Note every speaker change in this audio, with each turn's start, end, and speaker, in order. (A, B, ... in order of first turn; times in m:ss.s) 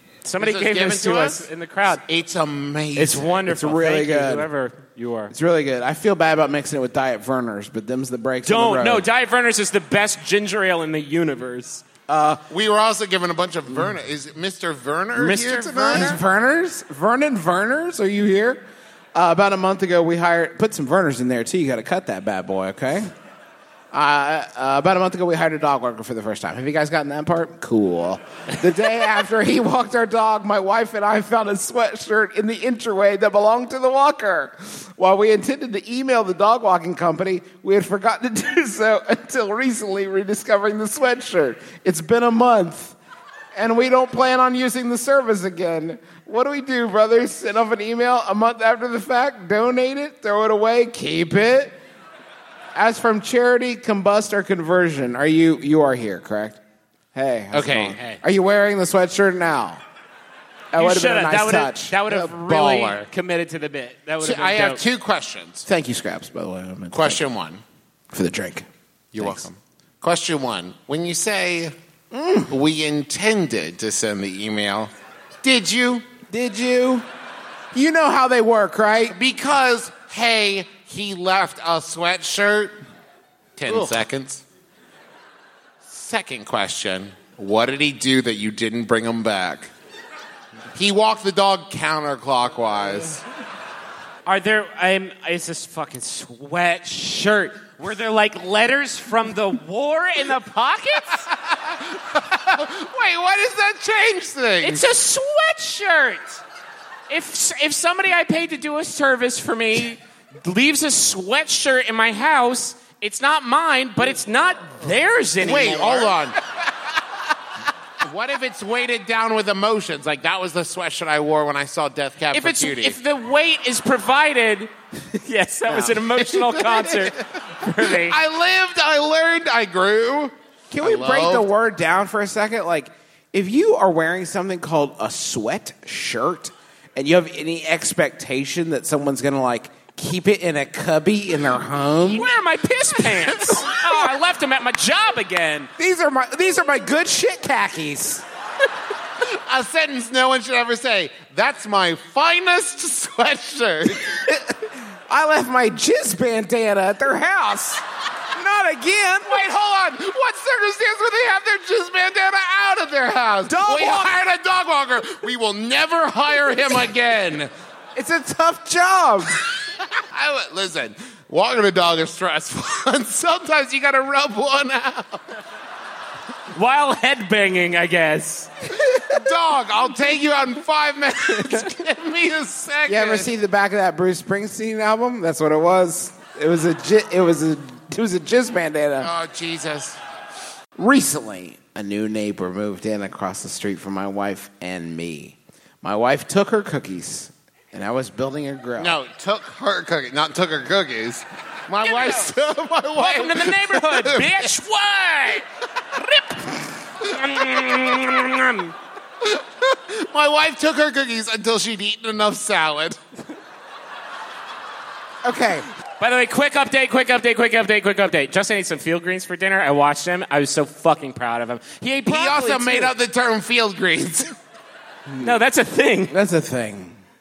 0:00.2-0:02.0 A
0:00.4-0:01.4 B
0:02.0-0:03.4 B
0:03.0-0:05.3 A
0:03.5-0:04.5 C
0:05.3-0:09.0 C
0:08.4-0:11.8 A
0:12.1-0:12.4 C
0:12.5-0:16.2 B
0:15.2-0:16.1 A
0:15.2-0:23.1 C
0:23.9-0:43.0 C
0:43.5-0:51.8 C
0:52.7-0:56.6 C
0:57.1-0:59.8 C
0:57.5-0:58.0 B
1:00.7-1:02.2 C
1:00.8-1:04.8 A
1:02.2-1:03.0 B
1:04.2-1:05.6 B
1:05.6-1:07.2 C
1:06.9-1:07.6 B
1:08.1-1:09.4 C
1:09.1-1:11.7 B
1:12.1-1:12.5 C
1:12.5-1:14.9 B
1:15.4-1:16.0 B
1:16.3-1:17.0 C
1:17.7-1:19.2 C
1:19.1-1:22.8 B
1:23.6-1:24.4 B
1:23.7-1:24.0 C
1:25.8-1:29.7 B
1:30.7-1:33.2 B
1:34.2-1:41.3 A
1:41.4-1:44.8 B
1:44.6-1:46.4 A
1:47.1-1:56.1 A
1:55.4-1:56.4 B
1:58.0-2:03.0 B
2:02.3-2:08.2 A
2:06.2-2:07.2 B
2:07.8-2:11.4 B
2:10.7-2:22.3 C
2:22.0-2:25.7 A
2:25.8-2:28.2 C
2:29.2-2:34.1 B
2:34.0-2:37.8 C
2:38.3-2:39.4 C
2:39.3-2:47.5 B
2:43.4-2:44.2 C
2:47.9-2:49.4 C
2:49.9-2:55.2 B
2:56.5-2:58.5 A
2:58.9-3:03.3 B
3:02.9-3:09.1 C
3:09.0-3:10.0 B
3:10.8-3:19.0 C
3:18.8-3:24.5 B
3:21.8-3:22.3 A
3:23.0-3:25.4 A
3:27.0-3:28.7 A
3:29.2-3:33.0 B
3:35.2-3:35.6 C
3:36.0-3:42.9 A
3:42.1-3:44.3 B
3:45.1-3:45.3 C
3:45.2-3:46.1 A
3:46.1-3:47.0 C